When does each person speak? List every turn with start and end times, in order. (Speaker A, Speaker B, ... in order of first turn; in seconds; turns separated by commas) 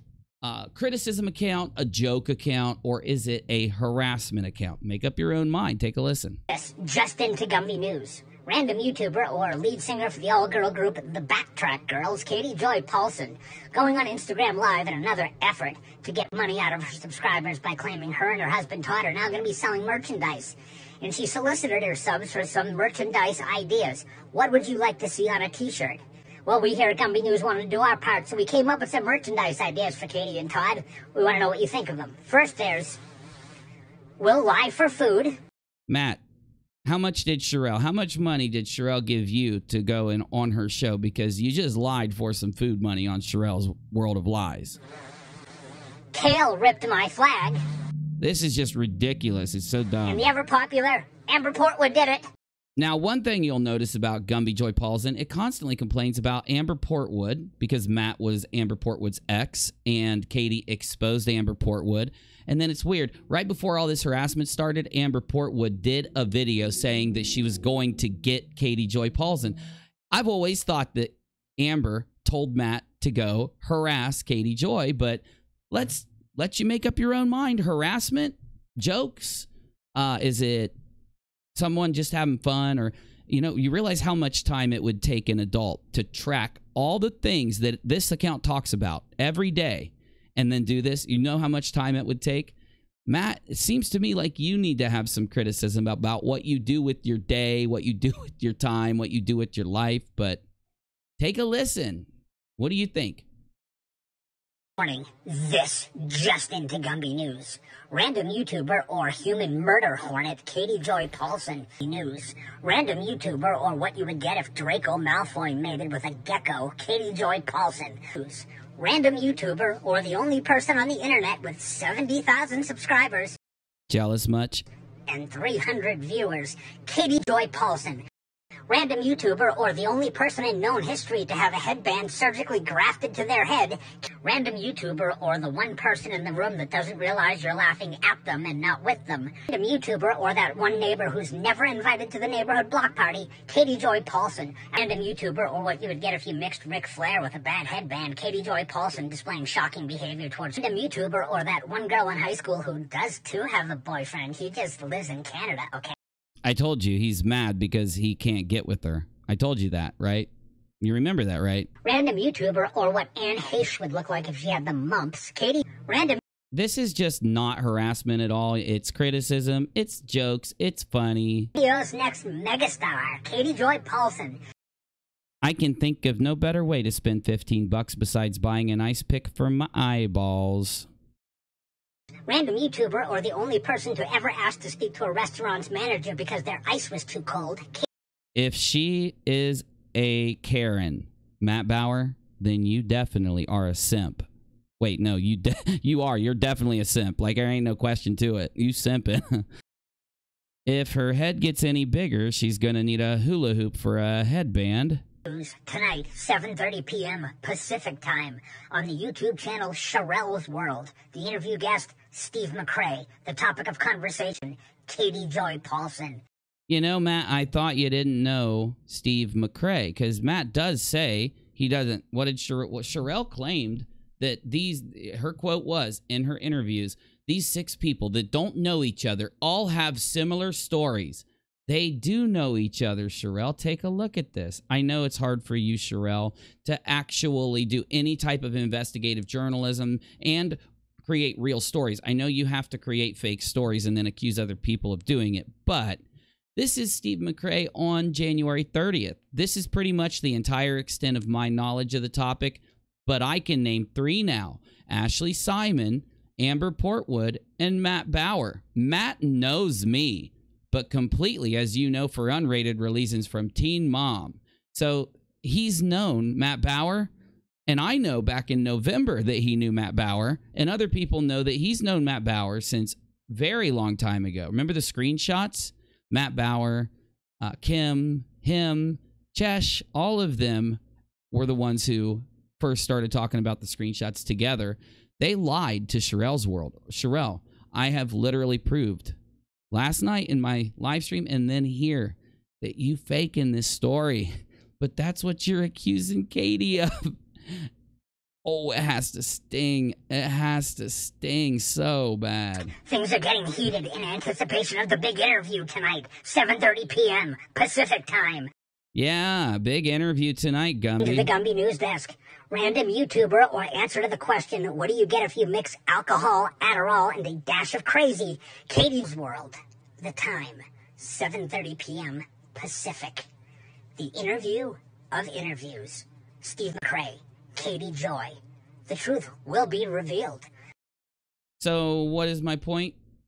Speaker A: 0.4-6.4, Speaker B: 6.5-33.0, Speaker B: 34.2-35.4, Speaker A: 35.9-36.2, Speaker A: 36.9-44.8, Speaker B: 46.1-47.6, Speaker A: 48.2-50.3, Speaker B: 50.0-52.3, Speaker A: 52.8-69.6, Speaker A: 70.1-80.7, Speaker A: 81.5-92.5, Speaker A: 93.1-100.4, Speaker A: 101.2-102.0, Speaker A: 102.6-103.2, Speaker B: 104.8-123.3, Speaker A: 123.9-124.6, Speaker B: 125.1-128.0, Speaker B: 128.7-155.9, Speaker A: 156.4-160.3, Speaker A: 160.8-161.7, Speaker B: 161.8-166.2, Speaker A: 166.5-171.5, Speaker B: 171.5-174.4, Speaker A: 175.4-180.8, Speaker B: 182.3-187.8, Speaker A: 188.3-194.3, Speaker A: 194.8-199.4, Speaker A: 200.7-205.0, Speaker B: 205.2-216.2, Speaker A: 216.7-246.0, Speaker A: 246.6-267.1, Speaker A: 267.7-276.9, Speaker A: 277.4-280.8, Speaker A: 281.3-289.1, Speaker A: 289.7-297.1, Speaker A: 298.4-302.7, Speaker B: 302.8-308.5, Speaker A: 308.9-311.3, Speaker B: 311.0-323.3, Speaker B: 324.0-328.3, Speaker B: 328.9-330.5, Speaker A: 331.6-332.9